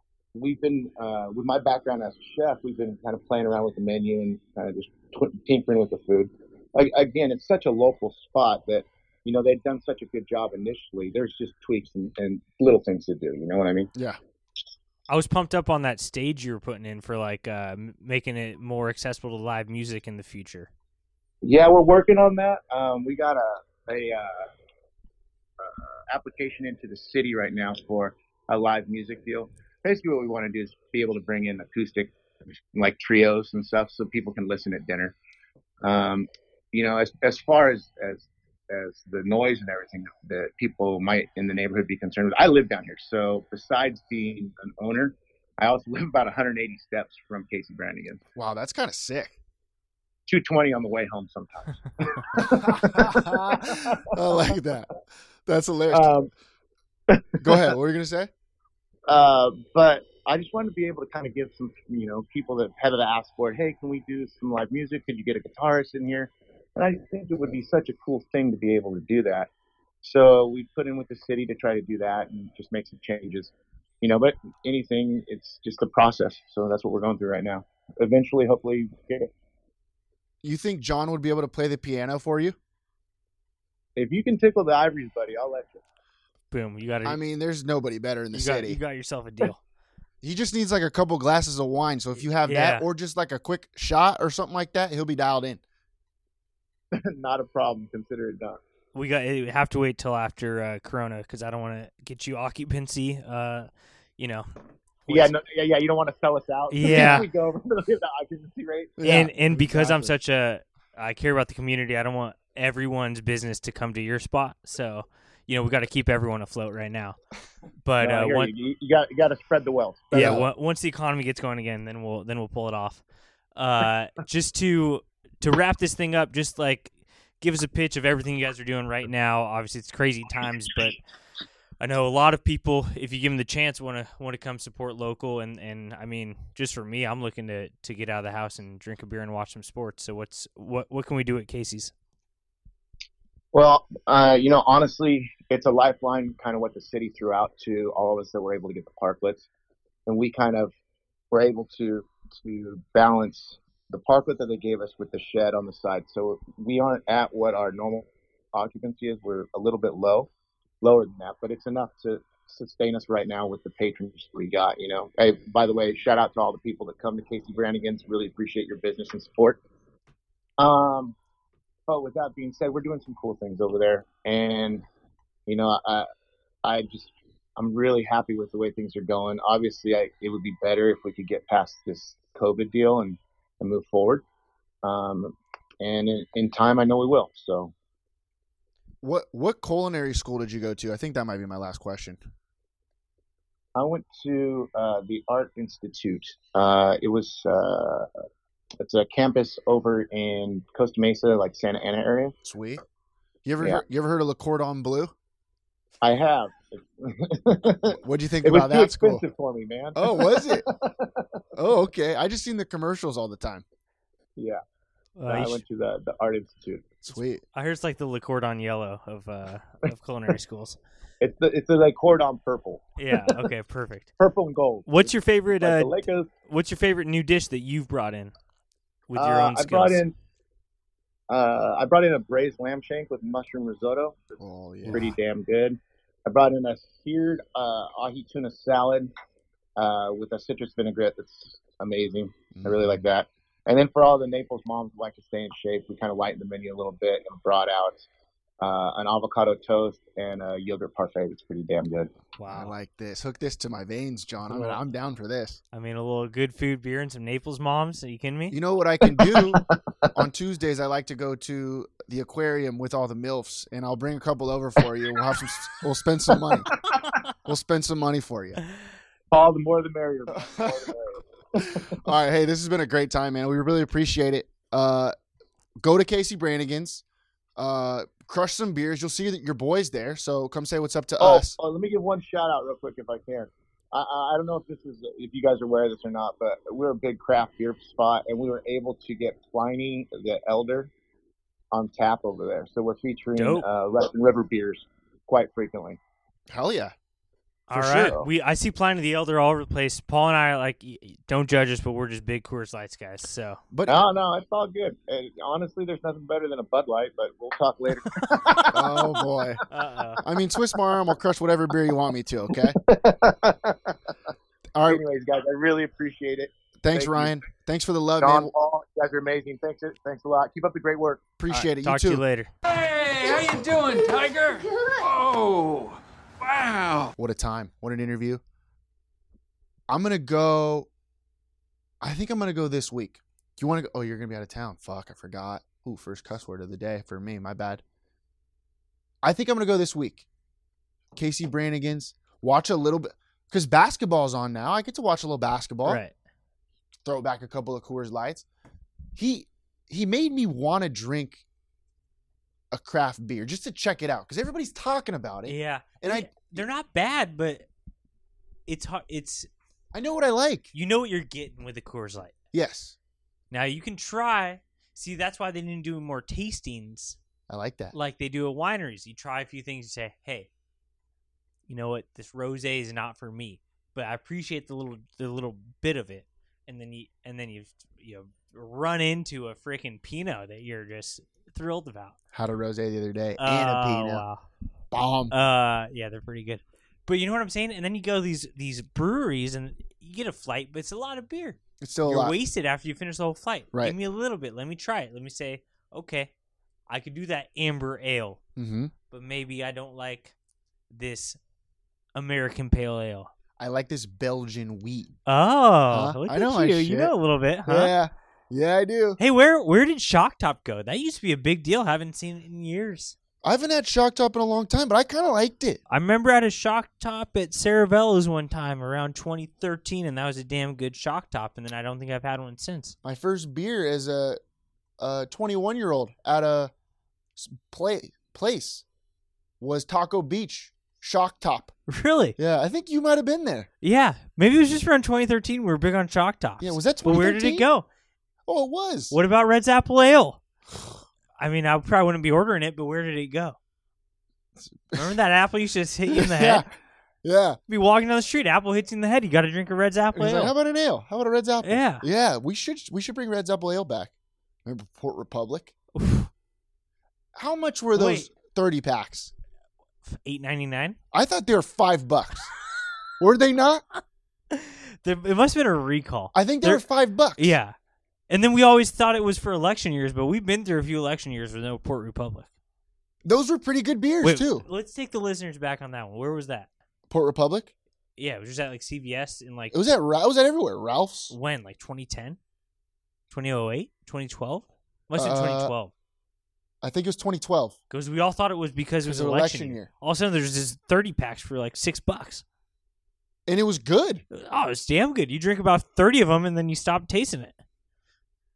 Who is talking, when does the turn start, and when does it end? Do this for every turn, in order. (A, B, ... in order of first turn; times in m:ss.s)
0:00.3-0:13.9 A
0:15.1-0:20.7 B
0:21.4-0:24.5 A
0:25.6-0:32.1 A
0:32.8-0:35.2 A
0:35.8-0:48.2 A
0:48.4-0:49.4 C
0:50.3-0:54.6 A
0:52.3-0:54.9 C
0:55.5-0:56.1 C
0:55.9-0:56.3 A
0:57.1-0:57.7 A
0:57.4-0:58.3 C
0:59.1-1:09.5 A
1:10.0-1:19.3 A
1:20.4-1:22.6 C
1:24.0-1:25.8 A
1:26.5-1:27.2 B
1:27.0-1:28.8 C
1:28.3-1:29.6 B
1:30.2-1:35.6 C
1:32.4-1:32.8 B
1:36.9-1:38.6 A
1:38.9-1:44.5 B
1:45.1-1:45.3 B
1:45.1-1:49.0 A
1:46.7-1:47.3 B
1:46.8-1:47.2 C
1:49.0-1:50.2 C
1:49.0-1:57.2 B
1:57.8-1:58.5 B
1:58.0-2:00.4 A
2:00.1-2:03.0 B
2:00.1-2:00.5 C
2:03.6-2:11.0 B
2:11.8-2:21.9 B
2:23.5-2:29.5 A
2:30.1-2:30.7 A
2:31.3-2:40.3 A
2:40.8-2:49.6 A
2:50.6-2:51.2 A
2:51.9-2:54.8 A
2:55.5-2:56.1 A
2:56.6-3:04.2 A
3:04.8-3:07.7 A
3:09.0-3:12.2 C
3:13.8-3:18.1 A
3:18.8-3:22.4 A
3:22.4-3:22.8 C
3:23.4-3:25.1 C
3:26.0-3:31.3 A
3:28.0-3:29.2 C
3:30.0-3:30.6 C
3:31.6-3:33.6 C
3:35.2-3:35.6 B
3:35.3-3:36.9 A
3:37.0-3:37.4 C
3:37.5-3:40.8 B
3:41.2-3:43.0 A
3:43.0-3:44.1 B
3:44.2-3:46.3 A
3:44.9-3:46.0 B
3:46.5-3:48.3 B
3:49.1-3:50.0 B
3:49.2-3:50.1 A
3:51.3-3:59.1 A
3:54.4-3:55.1 C
3:59.8-4:08.1 A
4:02.6-4:03.0 C
4:08.6-4:12.1 A
4:12.4-4:12.7 B
4:12.5-4:15.6 C
4:14.5-4:14.8 B
4:15.7-4:18.6 B
4:18.5-4:26.7 C
4:19.0-4:20.1 A
4:27.4-4:28.6 C
4:29.3-4:32.0 A
4:30.3-4:30.9 C
4:32.0-4:35.2 C
4:35.8-4:37.0 C
4:37.6-4:41.6 C
4:41.2-4:50.9 A
4:51.7-4:56.0 A
4:53.4-4:53.6 B
4:56.5-4:56.9 C
4:57.7-5:03.6 B
4:57.7-4:58.2 C
5:03.7-5:04.0 C
5:03.9-5:09.2 A
5:08.7-5:09.6 C
5:09.7-5:10.2 B
5:10.2-5:12.8 C
5:12.5-5:14.1 A
5:14.8-5:15.0 C
5:14.9-5:17.4 A
5:16.8-5:18.5 C
5:18.2-5:21.3 A
5:21.4-5:22.2 C
5:21.5-5:22.5 B
5:22.7-5:27.1 D
5:27.2-5:28.4 C
5:29.9-5:30.9 C
5:32.0-5:37.8 C
5:39.2-5:40.2 C
5:41.2-5:46.0 C
5:45.8-5:46.1 B
5:47.0-5:48.5 C
5:49.2-5:51.4 C
5:52.7-5:56.6 C
5:55.5-5:57.7 B
5:58.7-5:59.5 B
5:59.9-6:00.7 C
6:00.7-6:02.3 B
6:02.5-6:03.0 C
6:03.5-6:07.2 B
6:07.5-6:08.0 C
6:07.9-6:10.5 B
6:11.7-6:22.2 B
6:22.3-6:24.2 C
6:23.4-6:24.4 B
6:24.9-6:25.3 C
6:25.3-6:36.3 B
6:31.8-6:32.4 C
6:36.9-6:38.4 B
6:38.6-6:38.9 C
6:39.1-6:40.3 B
6:40.9-6:41.4 B
6:42.2-6:43.3 B
6:43.6-6:45.1 C
6:45.3-6:47.9 B
6:45.9-6:49.2 C
6:49.2-6:53.2 B
6:53.4-6:55.8 C
6:55.9-7:03.0 B
7:03.0-7:04.4 C
7:05.0-7:06.7 C
7:07.4-7:08.8 C
7:09.6-7:11.7 C
7:11.9-7:12.4 B
7:12.4-7:13.7 C
7:13.8-7:17.9 B
7:16.6-7:17.7 C
7:18.5-7:19.2 C
7:19.1-7:20.4 B
7:21.4-7:23.6 B
7:24.6-7:25.2 C
7:25.0-7:26.7 B
7:26.1-7:26.7 C
7:27.2-7:27.6 C
7:27.7-7:30.5 B
7:30.1-7:34.1 C
7:31.6-7:32.1 B
7:34.7-7:35.7 C
7:36.0-7:36.3 B
7:37.4-7:39.3 C
7:38.0-7:38.3 B
7:40.0-7:41.0 B
7:41.1-7:42.5 C
7:43.2-7:43.8 C
7:44.5-7:46.8 B
7:46.3-7:47.6 C
7:47.4-7:47.7 B
7:48.3-7:52.5 B
7:53.2-7:54.7 C
7:54.2-7:56.7 B
7:57.1-7:57.7 C
7:58.2-7:59.8 B
7:59.7-8:01.3 C
8:01.3-8:02.4 B
8:03.3-8:05.9 B
8:05.2-8:05.7 C
8:06.8-8:07.8 C
8:07.9-8:12.4 B
8:09.0-8:09.9 C
8:13.5-8:14.2 C
8:14.3-8:17.6 B